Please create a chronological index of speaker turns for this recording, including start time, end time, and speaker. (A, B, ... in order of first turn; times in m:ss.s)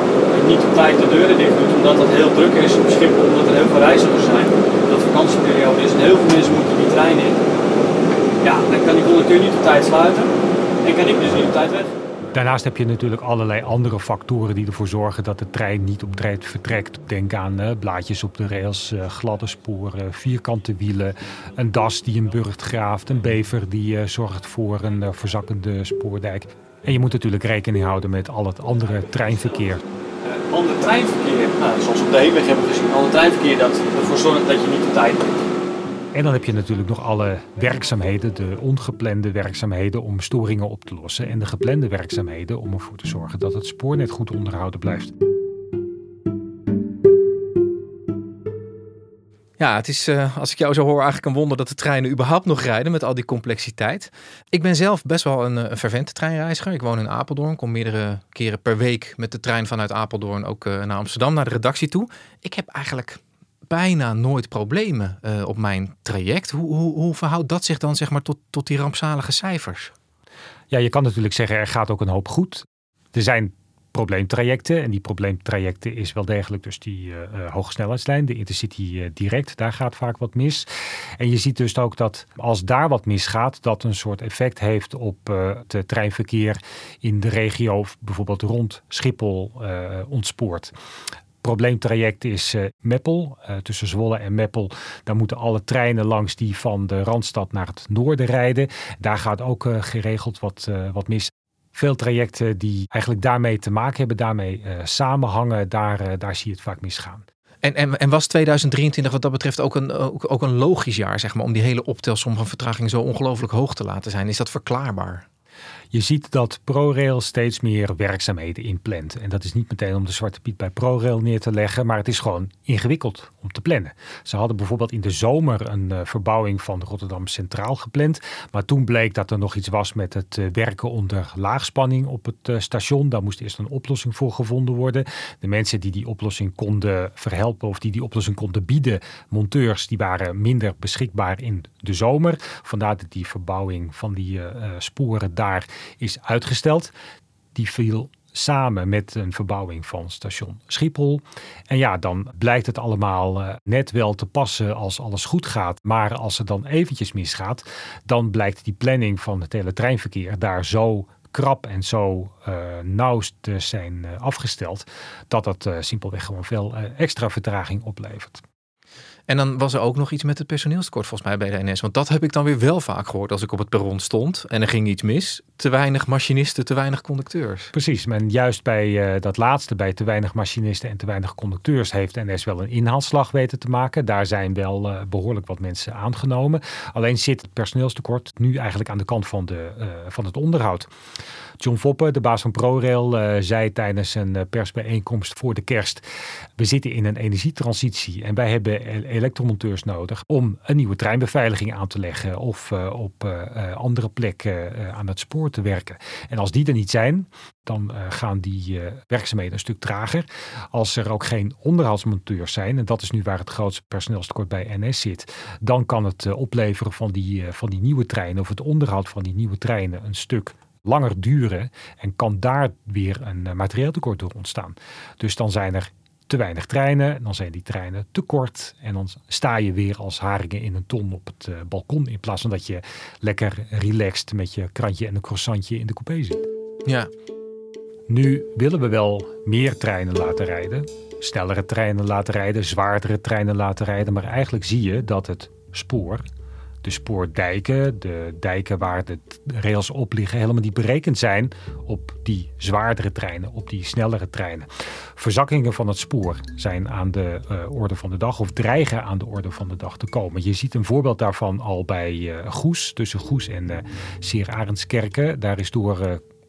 0:00.3-0:07.4 A
0:08.4-0:10.3 A
0:10.8-0:11.9 A
0:12.3-0:29.8 B
0:30.3-0:35.4 A
0:36.1-0:45.1 B
0:49.6-1:09.9 C
1:10.7-1:20.7 B
1:21.2-1:30.7 B
1:31.4-1:47.3 B
1:47.6-1:55.2 C
1:55.9-2:26.9 B
2:27.6-2:48.4 B
2:49.3-2:57.7 C
2:57.7-3:10.9 B
3:11.6-3:16.0 B
3:16.6-3:56.5 B
3:58.1-4:06.2 B
4:06.8-4:26.2 B